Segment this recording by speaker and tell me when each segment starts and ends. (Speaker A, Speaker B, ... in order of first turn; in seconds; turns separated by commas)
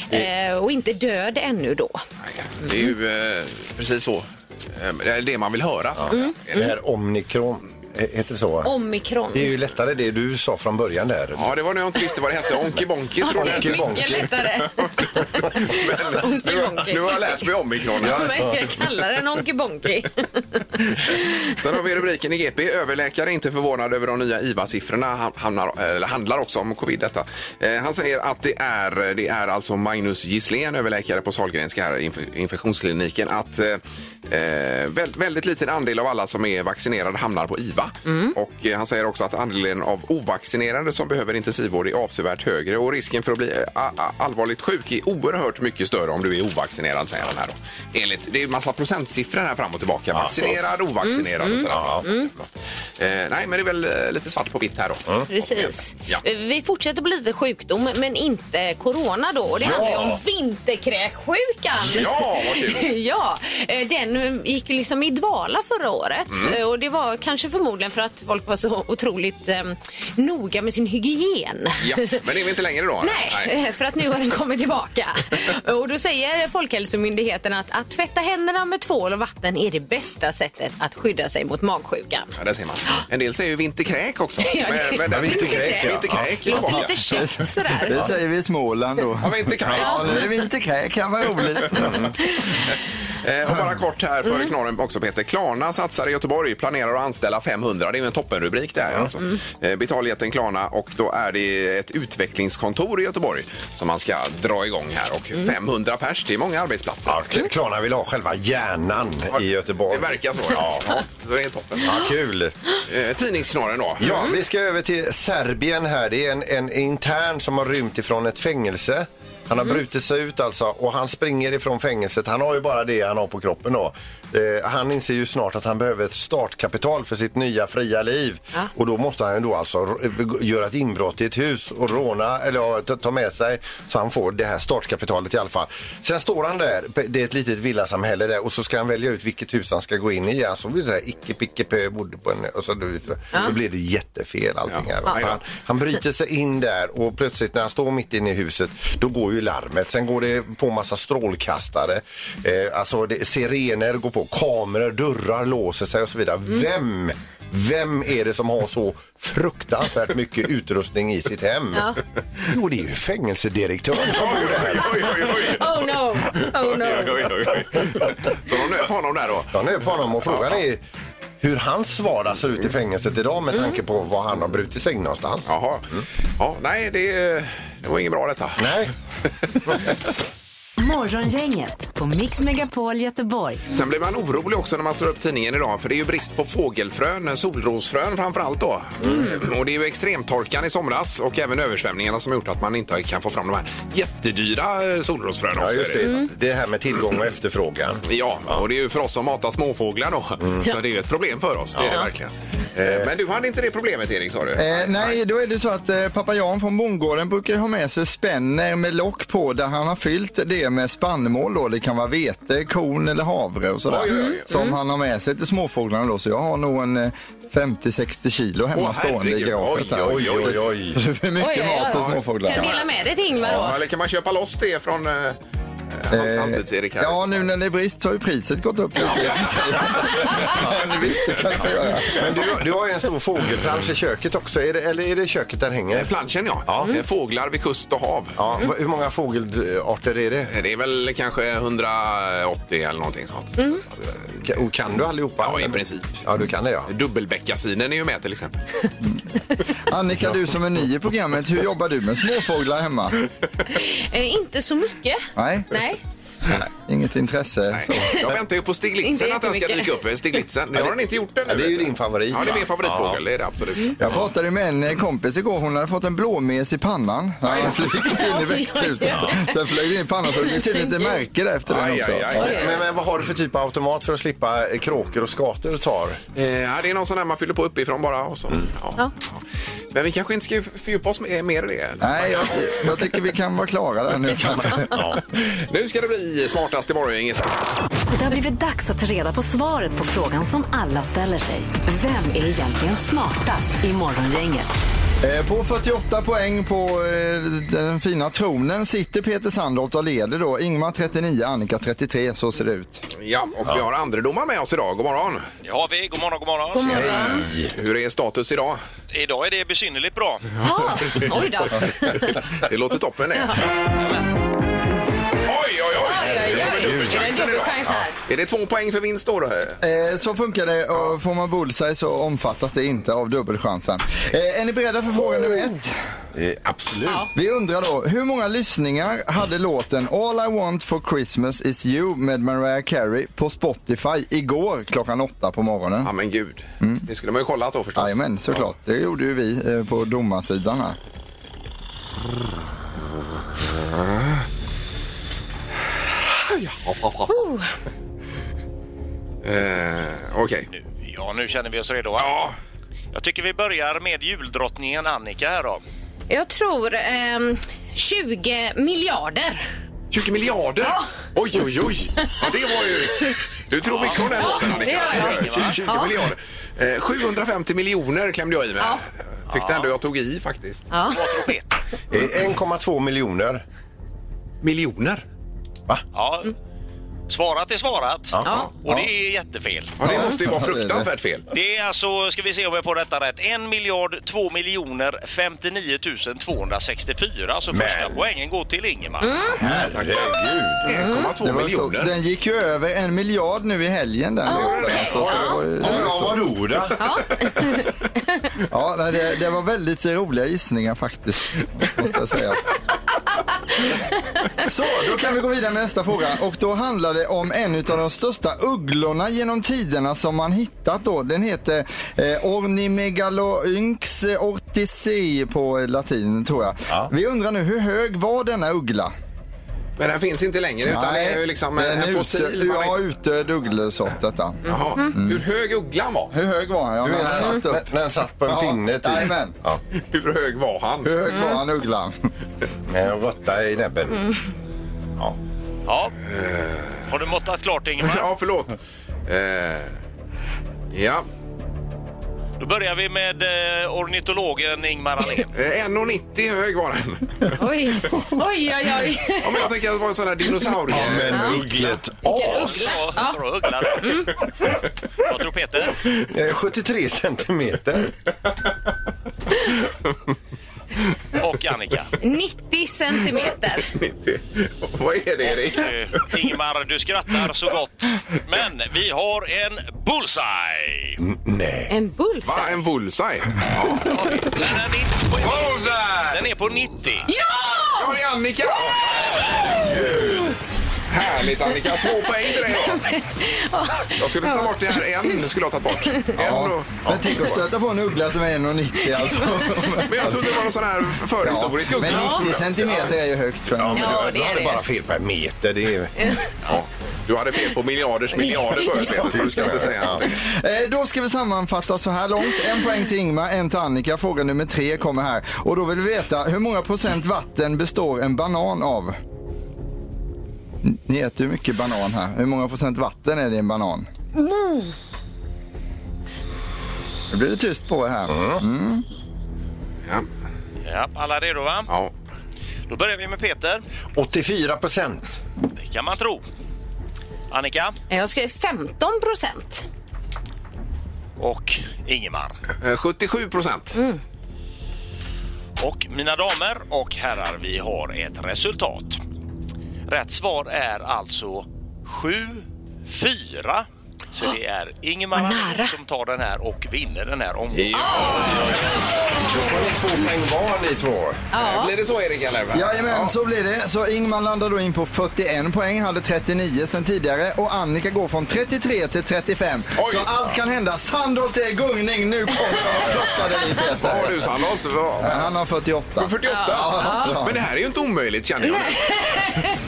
Speaker A: 0.1-2.0, Speaker B: 2.2-6.5, Speaker C: 6.0-8.7, Speaker A: 6.1-6.7, Speaker A: 8.7-9.5, Speaker C: 9.3-11.5, Speaker B: 11.4-14.3, Speaker A: 13.2-21.4, Speaker C: 13.3-14.3, Speaker B: 15.4-18.4, Speaker C: 18.0-18.7, Speaker B: 21.5-56.2, Speaker A: 38.1-38.4, Speaker C: 50.1-50.8, Speaker A: 51.0-52.3, Speaker C: 51.7-52.1, Speaker A: 55.3-72.2, Speaker C: 59.6-60.2, Speaker B: 61.8-62.9, Speaker B: 66.3-66.6, Speaker B: 71.8-73.5, Speaker A: 73.0-82.3, Speaker B: 82.4-87.2, Speaker A: 84.4-88.0, Speaker C: 85.1-86.8, Speaker D: 87.0-92.1, Speaker B: 89.2-90.3, Speaker A: 89.8-90.2, Speaker C: 91.8-92.1, Speaker B: 93.2-107.2, Speaker C: 107.1-110.8, Speaker B: 109.3-112.0, Speaker C: 111.8-112.5, Speaker B: 112.9-114.2, Speaker C: 114.0-161.9, Speaker B: 144.7-145.4, Speaker A: 161.7-162.0, Speaker C: 162.4-165.3, Speaker B: 164.0-169.6, Speaker A: 165.3-167.5, Speaker C: 169.5-170.8, Speaker B: 170.2-170.6, Speaker C: 171.4-176.1, Speaker B: 175.5-178.8, Speaker C: 178.6-178.9, Speaker E: 180.8-183.7, Speaker B: 183.7-196.2, Speaker C: 189.0-189.4, Speaker A: 189.1-189.3, Speaker C: 195.6-198.6, Speaker A: 196.0-196.3, Speaker B: 198.1-205.2, Speaker C: 201.8-202.1, Speaker C: 202.8-203.1, Speaker D: 204.6-222.7, Speaker B: 213.9-214.5, Speaker A: 214.1-214.8, Speaker B: 218.7-220.7, Speaker C: 220.0-221.0, Speaker A: 221.4-223.8, Speaker B: 221.9-222.8, Speaker B: 223.4-225.4, Speaker B: 225.9-227.4, Speaker D: 226.1-232.3, Speaker C: 232.2-236.1, Speaker B: 235.9-238.7, Speaker C: 236.7-236.9, Speaker C: 238.4-240.5, Speaker B: 240.5-244.3, Speaker C: 244.4-246.9, Speaker B: 245.4-246.2, Speaker B: 246.9-248.6, Speaker D: 249.8-253.2, Speaker A: 253.7-256.0, Speaker D: 255.4-255.8, Speaker D: 256.5-258.2, Speaker B: 257.7-264.2, Speaker A: 258.0-258.3, Speaker A: 259.1-260.0, Speaker C: 260.7-263.2, Speaker D: 264.0-272.6, Speaker B: 267.4-268.0, Speaker A: 268.0-269.6, Speaker A: 270.4-271.2, Speaker B: 271.7-272.8, Speaker A: 272.4-272.7, Speaker C: 272.4-276.2, Speaker B: 276.4-279.4, Speaker B: 279.9-282.7, Speaker D: 282.0-285.2, Speaker C: 284.9-285.2, Speaker B: 285.5-287.7, Speaker E: 288.1-294.7, Speaker D: 295.2-303.1, Speaker B: 303.2-305.5, Speaker F: 305.6-307.2, Speaker A: 306.7-307.5, Speaker C: 306.9-307.7, Speaker B: 307.7-308.8, Speaker F: 309.1-310.6, Speaker A: 310.6-312.2, Speaker B: 311.0-311.5, Speaker B: 312.5-313.6, Speaker A: 313.4-313.6, Speaker B: 315.4-319.8, Speaker A: 316.0-318.2, Speaker C: 316.0-318.0, Speaker D: 319.8-325.9, Speaker C: 326.3-327.3, Speaker D: 327.4-336.1, Speaker B: 336.0-338.2, Speaker D: 336.8-337.1, Speaker D: 338.0-341.0, Speaker B: 346.4-347.3, Speaker A: 347.3-347.7, Speaker B: 349.4-350.7, Speaker F: 350.7-352.4, Speaker B: 352.2-352.5, Speaker F: 353.1-355.8, Speaker A: 356.3-359.7, Speaker B: 360.1-370.9, Speaker F: 363.8-366.0, Speaker A: 364.4-366.1, Speaker F: 369.5-369.9, Speaker A: 370.9-371.5, Speaker F: 371.1-371.6, Speaker C: 372.1-373.6, Speaker B: 374.6-375.2, Speaker F: 376.1-376.5, Speaker F: 377.3-380.0, Speaker C: 378.3-378.6, Speaker A: 378.4-378.7, Speaker B: 380.0-381.5, Speaker D: 380.0-381.1, Speaker F: 381.5-389.5, Speaker C: 387.7-388.2, Speaker A: 389.2-389.6, Speaker C: 389.6-390.9, Speaker D: 389.6-389.9, Speaker B: 389.9-392.1, Speaker A: 391.0-391.3, Speaker D: 391.4-396.5, Speaker A: 394.4-395.6, Speaker B: 394.5-395.6, Speaker C: 395.8-397.0, Speaker A: 397.0-398.4, Speaker D: 398.7-402.7, Speaker D: 404.6-419.1, Speaker B: 420.0-423.0, Speaker D: 420.8-425.4, Speaker B: 424.6-426.3, Speaker A: 424.7-425.1, Speaker D: 426.3-427.9, Speaker C: 427.0-429.8, Speaker D: 428.5-429.6, Speaker B: 429.9-431.1, Speaker D: 431.0-432.2, Speaker A: 431.3-431.6, Speaker C: 432.9-434.3, Speaker F: 435.9-436.1, Speaker B: 436.3-437.1, Speaker F: 437.1-438.3, Speaker B: 438.0-439.9, Speaker B: 440.9-441.2, Speaker F: 442.6-445.5, Speaker B: 445.6-447.6, Speaker A: 447.6-449.7, Speaker B: 449.4-451.7, Speaker C: 450.9-452.8, Speaker A: 451.3-453.4, Speaker F: 451.6-454.2, Speaker A: 454.0-454.3, Speaker F: 455.2-456.0, Speaker C: 456.1-458.1, Speaker F: 461.4-462.1, Speaker A: 462.2-463.9, Speaker B: 463.8-465.9, Speaker F: 465.4-471.2, Speaker C: 471.2-471.9, Speaker A: 471.9-472.8, Speaker B: 472.4-474.1, Speaker F: 474.0-477.3, Speaker A: 477.3-478.1, Speaker B: 478.0-480.5, Speaker B: 481.1-483.1, Speaker A: 482.4-484.8, Speaker B: 484.2-486.9, Speaker D: 486.4-490.7, Speaker C: 486.4-487.4, Speaker A: 489.1-490.0, Speaker B: 490.0-492.8, Speaker D: 491.4-494.3, Speaker A: 492.1-492.5, Speaker C: 493.7-496.8, Speaker A: 493.9-494.8, Speaker A: 496.2-496.5, Speaker B: 496.7-500.3, Speaker A: 498.6-499.4, Speaker C: 499.1-500.3, Speaker D: 500.2-509.2, Speaker D: 510.8-514.1, Speaker A: 514.4-514.9, Speaker D: 517.3-519.0, Speaker C: 518.3-518.6, Speaker F: 520.8-521.9, Speaker F: 522.9-523.8, Speaker C: 524.1-525.4, Speaker F: 525.8-526.4, Speaker F: 527.5-528.0, Speaker A: 528.1-529.9, Speaker F: 531.4-532.5, Speaker B: 532.8-534.0, Speaker A: 534.0-534.2, Speaker F: 535.8-539.2, Speaker F: 540.1-549.0, Speaker A: 545.4-545.9, Speaker B: 547.7-548.8, Speaker A: 548.0-548.4, Speaker C: 549.3-551.4, Speaker A: 551.5-551.9, Speaker B: 551.5-553.3, Speaker D: 552.7-564.6, Speaker B: 560.0-560.3, Speaker B: 564.0-565.5, Speaker D: 565.2-567.7, Speaker B: 566.2-569.5, Speaker A: 566.5-567.4, Speaker A: 568.6-569.8